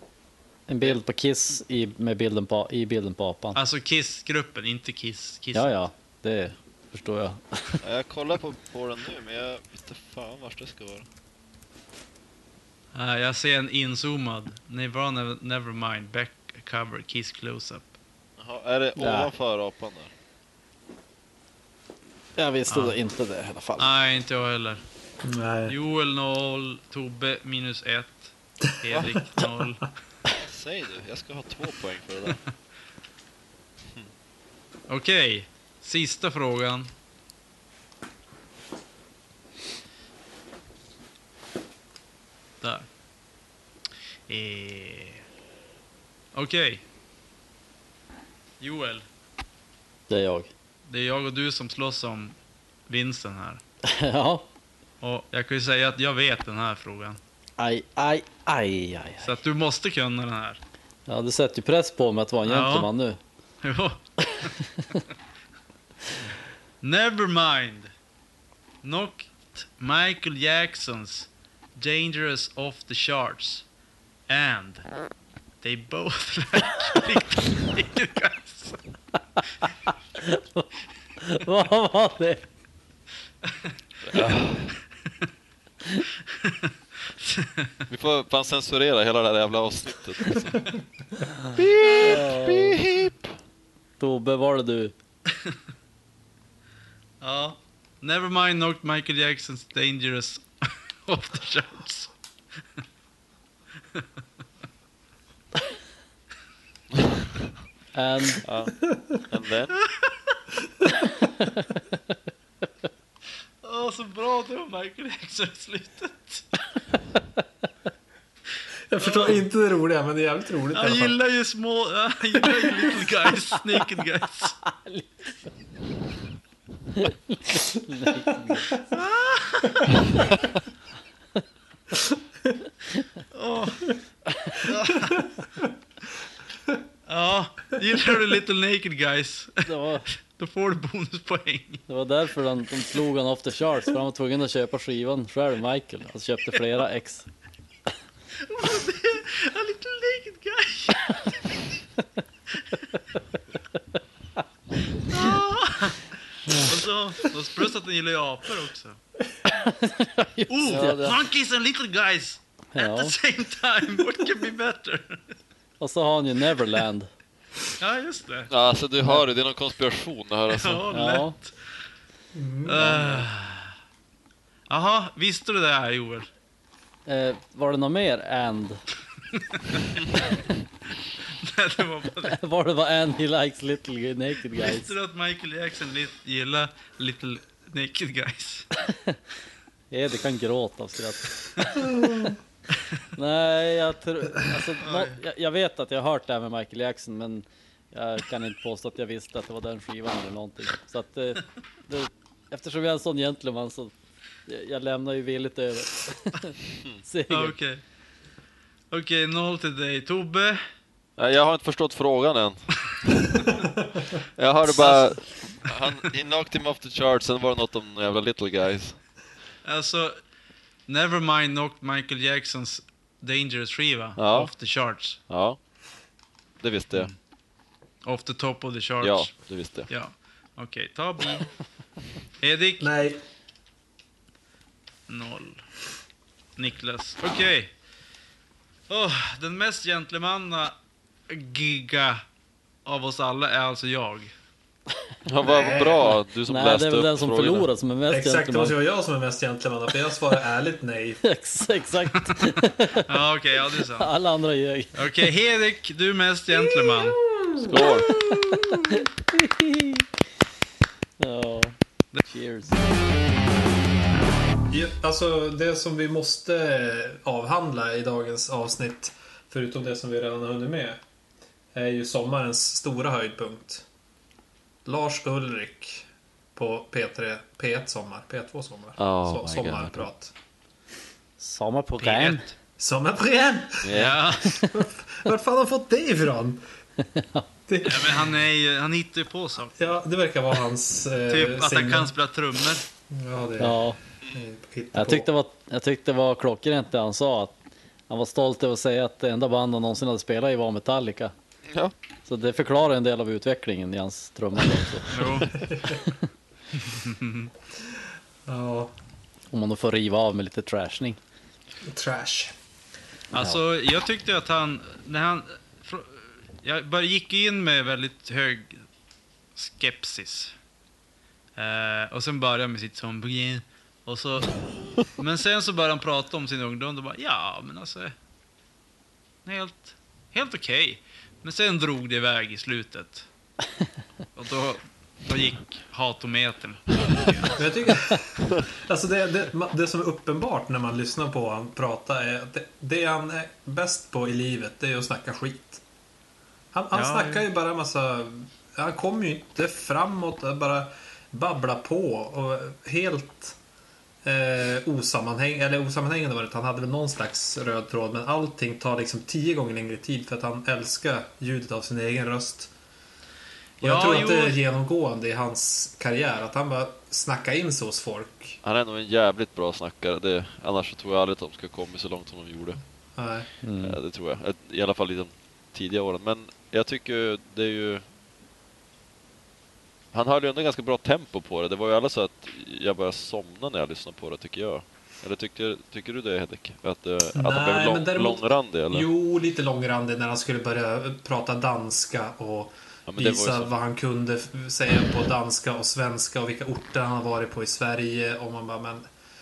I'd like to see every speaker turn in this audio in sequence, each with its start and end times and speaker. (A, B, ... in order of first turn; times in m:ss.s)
0:00.7-0:03.6 A
0:03.5-0:05.8 B
0:05.5-0:07.8 A
0:07.8-0:11.0 C
0:12.9-0:17.9 B
0:18.4-0:20.1 C
0:19.0-0:19.3 A
0:22.4-0:23.9 A
0:22.7-0:23.0 B
0:23.8-0:24.8 B
0:25.2-0:25.8 D
0:25.7-0:29.9 B
0:30.4-0:32.4 C
0:34.9-0:36.9 B
0:42.6-0:42.9 B
0:44.3-0:45.2 B
0:46.3-0:46.8 B
0:48.6-0:49.0 B
0:50.1-0:50.5 A
0:50.8-0:52.4 B
0:52.9-0:53.6 B
0:53.8-0:54.4 A
0:55.0-0:57.2 B
0:57.6-0:59.3 A
0:59.2-1:00.6 B
1:01.1-1:03.2 A
1:02.4-1:02.9 B
1:03.6-1:04.5 B
1:04.4-1:05.0 A
1:06.8-1:07.9 B
1:08.8-1:13.6 B
1:14.3-1:14.8 B
1:15.6-1:18.8 B
1:20.2-1:20.7 A
1:21.2-1:22.4 A
1:23.4-1:23.7 B
1:24.0-1:24.7 C
1:26.2-1:27.9 B
1:27.9-1:30.7 C
1:31.4-1:32.8 A
1:31.5-1:33.3 C
1:34.0-1:34.9 A
1:35.3-1:35.6 B
1:37.2-1:42.1 B
1:47.9-1:48.4 A
1:48.4-1:49.8 C
1:49.9-1:50.3 B
1:51.4-1:51.6 A
1:53.6-1:56.5 B
1:58.9-2:01.2 D
1:59.0-1:59.4 B
2:00.7-2:04.6 B
2:04.7-2:05.0 A
2:07.0-2:08.7 A
2:08.9-2:10.0 B
2:13.3-2:13.9 B
2:14.6-2:15.3 B
2:17.0-2:21.8 B
2:19.6-2:20.1 A
2:21.9-2:27.3 A
2:28.3-2:31.6 B
2:32.5-2:33.0 B
2:35.0-2:39.0 B
2:39.5-2:41.1 A
2:40.5-2:45.3 B
2:40.6-2:41.2 C
2:42.7-2:43.1 A
2:45.8-2:47.1 A
2:47.8-2:48.5 B
2:48.5-2:50.8 C
2:50.5-2:51.6 B
2:50.9-2:51.3 A
2:52.3-2:53.2 D
2:52.6-2:53.7 B
2:54.7-2:56.3 B
2:57.0-2:58.8 A
2:59.3-3:00.0 B
3:01.2-3:02.4 B
3:02.3-3:04.9 A
3:04.5-3:08.7 B
3:08.8-3:09.2 A
3:09.9-3:12.0 A
3:11.9-3:12.2 D
3:13.1-3:23.9 A
3:14.8-3:15.2 B
3:24.5-3:27.6 A
3:27.3-3:27.8 B
3:28.9-3:30.6 B
3:31.2-3:33.6 C
3:34.2-3:39.0 C
3:34.6-3:36.0 B
3:39.6-3:40.2 B
3:40.9-3:45.2 B
3:44.2-3:44.5 C
3:45.3-3:45.6 C
3:46.6-3:47.1 C
3:48.0-3:49.3 B
3:49.0-3:49.9 C
3:49.9-3:51.5 B
3:52.4-3:52.9 B
3:52.8-3:53.2 D
3:55.1-3:55.6 B
3:56.6-3:57.7 B
3:58.9-4:00.8 B
4:01.3-4:02.2 B
4:02.8-4:04.3 B
4:05.2-4:07.7 C
4:05.4-4:06.2 D
4:06.5-4:08.8 A
4:08.1-4:11.2 D
4:11.2-4:13.1 A
4:13.0-4:14.1 B
4:13.8-4:15.2 A
4:14.9-4:17.2 B
4:17.0-4:18.6 D
4:17.6-4:18.1 C
4:17.7-4:20.0 A
4:21.2-4:22.8 A
4:24.7-4:31.0 D
4:31.7-4:33.8 D
4:34.8-4:36.0 D
4:36.6-4:40.3 D
4:39.0-4:40.0 C
4:41.4-4:42.5 A
4:42.0-4:42.5 B
4:42.8-4:46.6 D
4:43.8-4:44.2 C
4:43.9-4:44.6 B
4:47.0-4:47.5 A
4:47.7-4:48.3 D
4:47.8-4:49.7 B
4:49.8-4:52.1 D
4:51.3-4:52.8 B
4:53.1-4:55.3 D
4:53.6-4:54.0 A
4:54.9-4:57.5 A
4:58.1-5:01.3 A
5:02.3-5:06.1 A
5:05.1-5:05.6 B
5:05.5-5:06.0 D
5:06.7-5:07.5 B
5:08.4-5:08.9 D
5:09.5-5:11.2 A
5:11.8-5:12.5 D
5:13.3-5:18.8 B
5:19.5-5:20.5 B
5:21.6-5:28.1 B
5:29.4-5:33.3 B
5:34.4-5:37.6 B
5:37.5-5:45.8 D
5:46.7-5:53.6 D
5:46.9-5:47.4 B
5:54.2-6:02.7 D
6:03.8-6:04.6 B
6:03.8-6:08.6 D
6:08.6-6:12.8 C
6:13.2-6:13.5 D
6:13.6-6:14.0 A
6:13.8-6:18.0 C
6:20.1-6:29.1 C
6:27.3-6:39.1 D
6:33.1-6:33.7 C